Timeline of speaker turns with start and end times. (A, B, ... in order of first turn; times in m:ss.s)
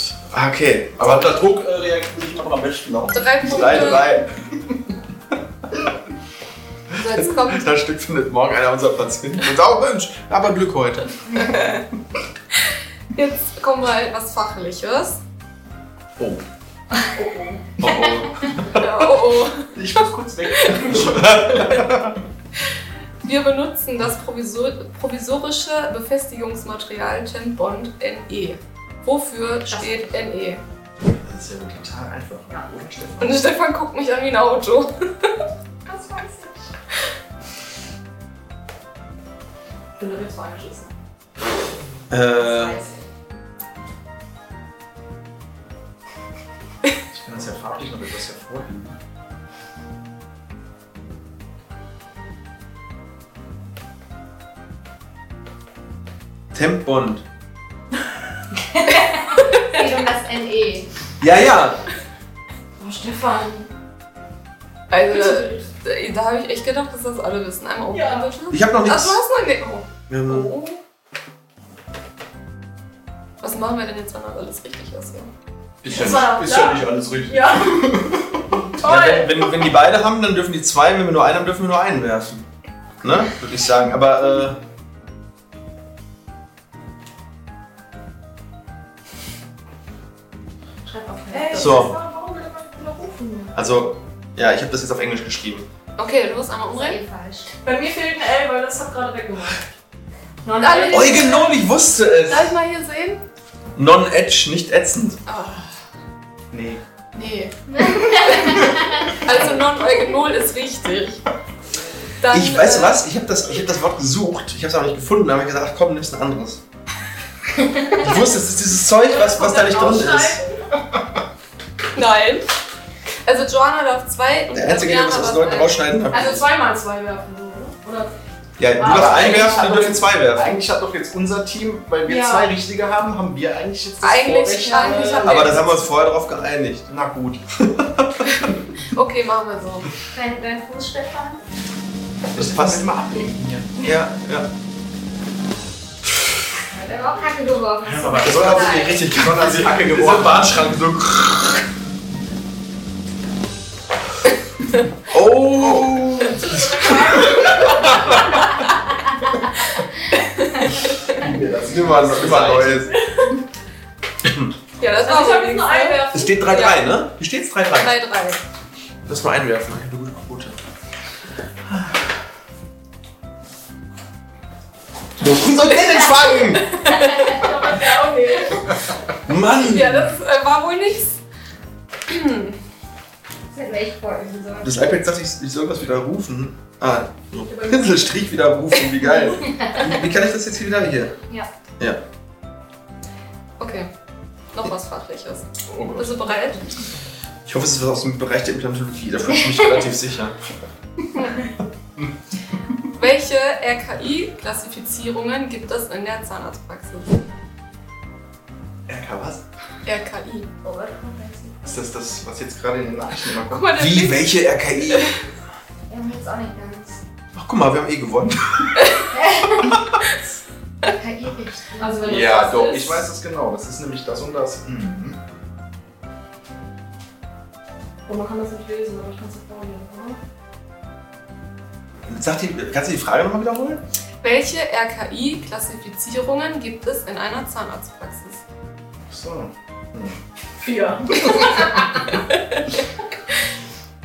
0:00.3-0:01.4 A
0:01.0-0:04.1 B
0:03.1-0:04.2 C
0:03.4-0:04.3 A
0:06.9-0:07.7 C
0:07.0-0:11.4 A
0:11.4-0:11.8 C
0:13.1-0:15.2 C
0:17.2-0:17.6 D
0:17.8-0:19.0 A
0:18.8-0:21.1 C
0:19.7-0:21.9 B
0:21.0-0:22.2 A
0:23.2-0:30.6 C
0:29.7-0:30.2 E
0:31.1-0:33.5 B
0:33.2-0:35.4 C
0:35.9-0:36.6 E
0:40.0-0:40.9 D
0:42.1-0:42.8 A
0:42.4-0:43.0 E
0:47.1-0:49.0 B
0:56.5-0:57.2 A
0:58.7-1:00.9 E
0:59.4-0:59.8 C
1:01.2-1:01.8 A
1:02.8-1:03.7 D
1:04.9-1:10.8 C
1:05.1-1:05.7 D
1:07.9-1:08.3 D
1:08.5-1:09.2 A
1:10.1-1:10.5 A
1:13.4-1:15.3 C
1:15.8-1:18.6 B
1:15.9-1:18.0 D
1:18.7-1:19.5 D
1:18.8-1:22.4 A
1:23.0-1:24.6 A
1:30.8-1:31.9 E
1:31.3-1:33.6 D
1:31.5-1:32.0 A
1:33.6-1:35.7 A
1:36.0-1:37.0 C
1:36.7-1:37.5 E
1:37.6-1:39.7 D
1:40.4-1:41.5 E
1:40.6-1:41.6 C
1:40.9-1:42.5 A
1:42.3-1:43.2 C
1:43.8-1:45.2 A
1:45.3-1:45.7 C
1:46.5-1:46.8 B
1:47.1-1:48.6 C
1:47.7-1:49.2 E
1:49.2-1:51.2 C
1:52.2-1:53.0 C
1:52.3-1:56.6 A
1:57.9-2:00.4 A
1:59.0-2:00.6 D
2:02.0-2:02.4 C
2:03.2-2:05.9 C
2:04.5-2:06.5 A
2:06.1-2:08.2 D
2:08.6-2:10.6 A
2:08.8-2:10.0 D
2:08.8-2:15.4 B
2:12.0-2:12.5 D
2:14.0-2:15.8 C
2:14.6-2:15.6 D
2:15.2-2:16.9 A
2:16.9-2:17.4 B
2:17.6-2:18.2 A
2:18.3-2:19.9 C
2:20.1-2:21.4 E
2:22.3-2:23.8 B
2:22.4-2:22.9 A
2:23.8-2:24.5 A
2:26.7-2:29.1 E
2:27.9-2:30.6 B
2:28.1-2:31.7 A
2:35.1-2:38.4 A
2:36.4-2:38.3 D
2:37.9-2:38.3 C
2:40.1-2:41.2 C
2:41.1-2:42.8 B
2:41.6-2:42.9 A
2:42.9-2:43.4 D
2:44.2-2:44.5 A
2:44.8-2:46.8 C
2:45.0-2:46.8 D
2:46.1-2:47.9 A
2:47.8-2:48.4 C
2:49.1-2:50.6 A
2:55.2-2:56.7 A
2:56.6-2:57.5 C
2:57.1-2:58.7 D
2:59.3-3:00.2 A
2:59.6-3:01.2 C
3:02.1-3:02.6 C
3:03.5-3:05.0 E
3:04.6-3:11.1 A
3:07.5-3:08.1 D
3:09.4-3:09.9 E
3:13.6-3:13.9 C
3:14.5-3:16.8 C
3:15.7-3:16.3 B
3:17.5-3:20.4 A
3:22.9-3:27.2 C
3:28.9-3:29.4 B
3:29.8-3:30.5 C
3:30.6-3:31.8 E
3:31.6-3:33.8 B
3:33.5-3:35.1 C
3:33.7-3:35.2 A
3:35.9-3:37.0 E
3:37.4-3:38.9 A
3:38.8-3:39.0 C
3:39.1-3:39.8 E
3:40.9-3:42.4 E
3:41.8-3:43.1 D
3:42.1-3:45.2 B
3:48.1-3:50.2 D
3:52.1-3:53.8 A
3:54.2-3:58.4 C
3:59.1-4:00.2 B
4:00.6-4:01.7 D
4:01.2-4:01.7 C